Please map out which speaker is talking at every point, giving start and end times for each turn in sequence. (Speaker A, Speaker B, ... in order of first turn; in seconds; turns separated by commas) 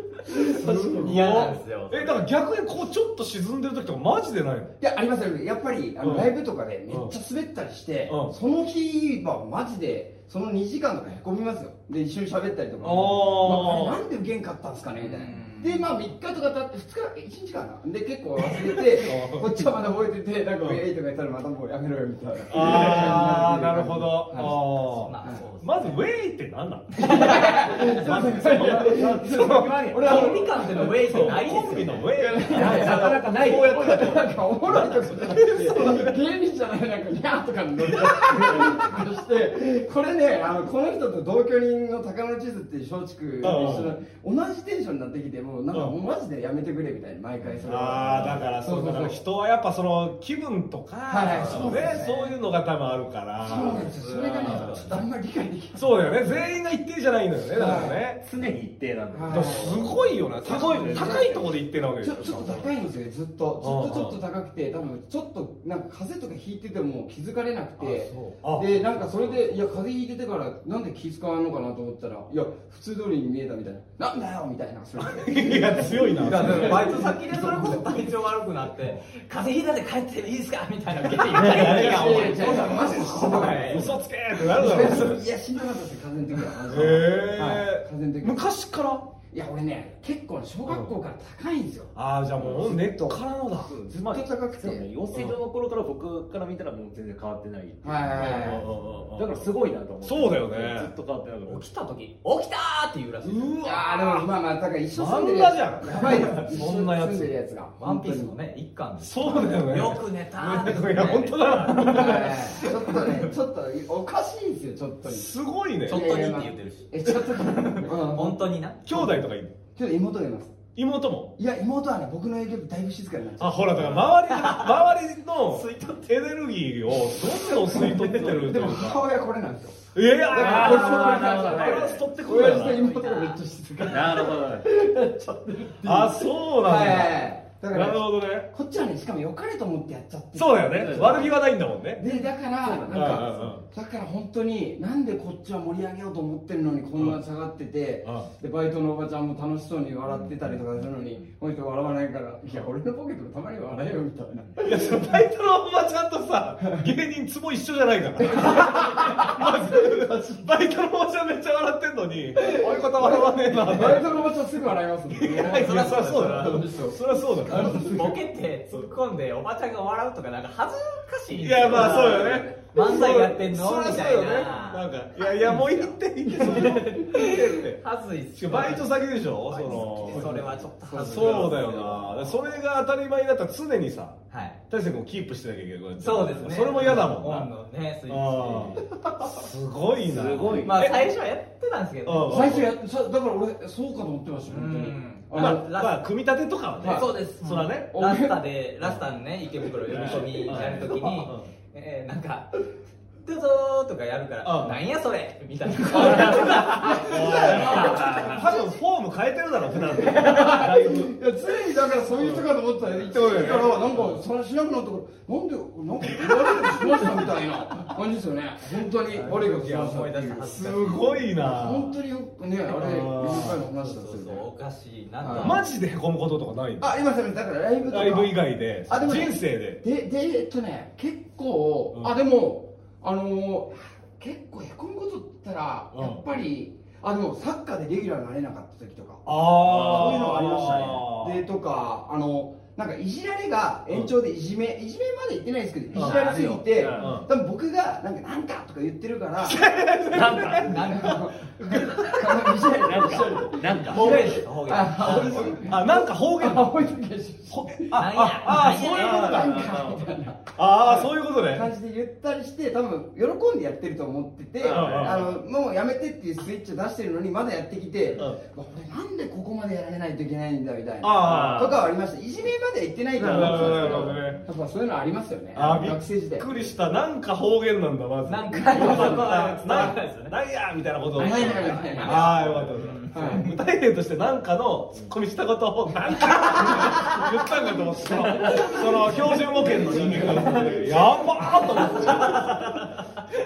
Speaker A: 0.3-1.5, Speaker B: 0.3-4.7, Speaker C: 0.9-2.3, Speaker A: 4.8-24.6, Speaker B: 6.0-6.3, Speaker B: 6.9-7.1, Speaker B: 8.1-8.3, Speaker B: 12.8-14.0, Speaker C: 15.0-16.0, Speaker B: 18.9-19.7, Speaker B: 22.5-30.2, Speaker C: 24.8-26.0, Speaker A: 27.0-31.3, Speaker C: 27.0-28.0, Speaker D: 28.2-30.4, Speaker C: 30.0-32.1, Speaker B: 30.8-36.2, Speaker A: 32.1-49.2, Speaker D: 32.5-34.3, Speaker B: 37.8-38.9, Speaker B: 43.4-44.0, Speaker D: 43.5-43.8, Speaker B: 47.6-54.8, Speaker A: 51.1-52.4, Speaker C: 51.3-52.1, Speaker A: 53.4-56.4, Speaker C: 53.4-55.0, Speaker B: 55.8-58.2, Speaker A: 57.5-58.0, Speaker D: 58.2-61.5, Speaker A: 59.1-78.0, Speaker B: 59.3-62.7, Speaker B: 63.6-64.2, Speaker B: 67.8-69.7, Speaker B: 75.0-77.1, Speaker C: 76.2-84.0, Speaker B: 81.2-85.3, Speaker A: 81.4-88.4, Speaker D: 82.4-83.2, Speaker B: 86.7-89.1, Speaker A: 89.3-93.2, Speaker B: 90.7-90.9, Speaker B: 92.0-93.7, Speaker D: 93.7-101.6, Speaker A: 93.9-94.9, Speaker A: 97.8-98.7, Speaker B: 98.2-99.5, Speaker B: 100.0-100.9, Speaker C: 101.5-103.7, Speaker B: 103.2-104.3, Speaker A: 103.6-108.3, Speaker B: 104.9-107.3, Speaker C: 107.8-113.3, Speaker B: 109.0-112.8, Speaker A: 111.7-115.3, Speaker B: 115.0-116.1, Speaker C: 115.9-118.8, Speaker A: 115.9-119.2, Speaker B: 118.8-119.5, Speaker A: 119.8-120.6, Speaker B: 120.8-121.3, Speaker A: 121.4-124.0, Speaker B: 123.4-129.0, Speaker C: 124.2-124.8, Speaker C: 125.5-126.2, Speaker C: 127.5-128.0, Speaker A: 127.6-141.4, Speaker B: 129.9-132.9, Speaker D: 130.3-132.0, Speaker C: 132.4-133.4, Speaker D: 133.9-134.7, Speaker B: 135.8-137.2, Speaker B: 137.7-138.5, Speaker B: 140.3-142.0, Speaker D: 140.8-141.3, Speaker A: 142.0-155.2, Speaker D: 142.1-143.6, Speaker B: 142.9-143.6, Speaker B: 148.0-148.3, Speaker B: 154.6-164.2, Speaker A: 158.2-160.0, Speaker A: 162.4-168.2, Speaker B: 165.1-168.0, Speaker C: 165.3-166.9, Speaker C: 167.5-182.0, Speaker B: 171.4-177.8, Speaker A: 171.7-172.6, Speaker A: 176.4-176.8, Speaker B: 178.4-180.4, Speaker A: 179.5-181.7, Speaker B: 181.0-187.5, Speaker C: 184.3-184.6, Speaker C: 186.0-188.8, Speaker B: 188.1-191.1, Speaker D: 190.1-190.8, Speaker C: 190.6-192.6, Speaker B: 192.1-192.7, Speaker A: 192.3-195.7, Speaker C: 194.5-196.0, Speaker B: 195.3-197.9, Speaker A: 196.8-197.1, Speaker C: 196.9-202.7, Speaker A: 197.9-198.4, Speaker A: 199.9-200.9, Speaker B: 199.9-201.5, Speaker C: 203.2-208.3, Speaker B: 204.4-204.8, Speaker A: 205.7-208.7, Speaker D: 205.9-206.8, Speaker B: 206.3-211.2, Speaker D: 207.5-208.5, Speaker A: 209.7-224.5, Speaker C: 210.3-210.5, Speaker B: 212.2-214.1, Speaker C: 213.6-214.0, Speaker B: 216.1-217.2, Speaker C: 219.1-221.3, Speaker B: 220.5-222.0, Speaker B: 222.7-223.6, Speaker C: 223.4-225.6, Speaker A: 225.2-225.6, Speaker B: 225.3-226.9, Speaker A: 226.8-249.6, Speaker B: 227.9-229.8, Speaker B: 235.9-236.2, Speaker B: 239.3-241.4, Speaker D: 239.7-240.3, Speaker C: 245.9-246.7, Speaker B: 245.9-246.2, Speaker D: 246.8-247.2, Speaker B: 247.0-247.3, Speaker B: 249.4-252.0, Speaker D: 250.1-250.8, Speaker C: 250.6-252.5, Speaker A: 250.8-276.5, Speaker D: 252.8-254.4, Speaker C: 253.9-255.8, Speaker B: 255.7-256.9, Speaker B: 257.5-259.7, Speaker C: 257.9-259.6, Speaker D: 259.1-260.1, Speaker B: 260.6-261.7, Speaker D: 264.6-265.4, Speaker B: 264.7-265.4, Speaker B: 271.0-271.8, Speaker D: 271.2-271.9, Speaker D: 273.2-274.4, Speaker B: 273.2-274.4, Speaker B: 275.6-292.8, Speaker C: 278.2-280.4, Speaker A: 278.5-279.9, Speaker A: 281.1-282.4, Speaker C: 281.2-283.6, Speaker A: 283.1-283.4, Speaker C: 286.3-287.2, Speaker A: 286.7-287.0, Speaker D: 288.1-288.8, Speaker C: 288.4-290.3, Speaker A: 288.5-292.4, Speaker D: 289.7-291.0, Speaker C: 291.8-293.0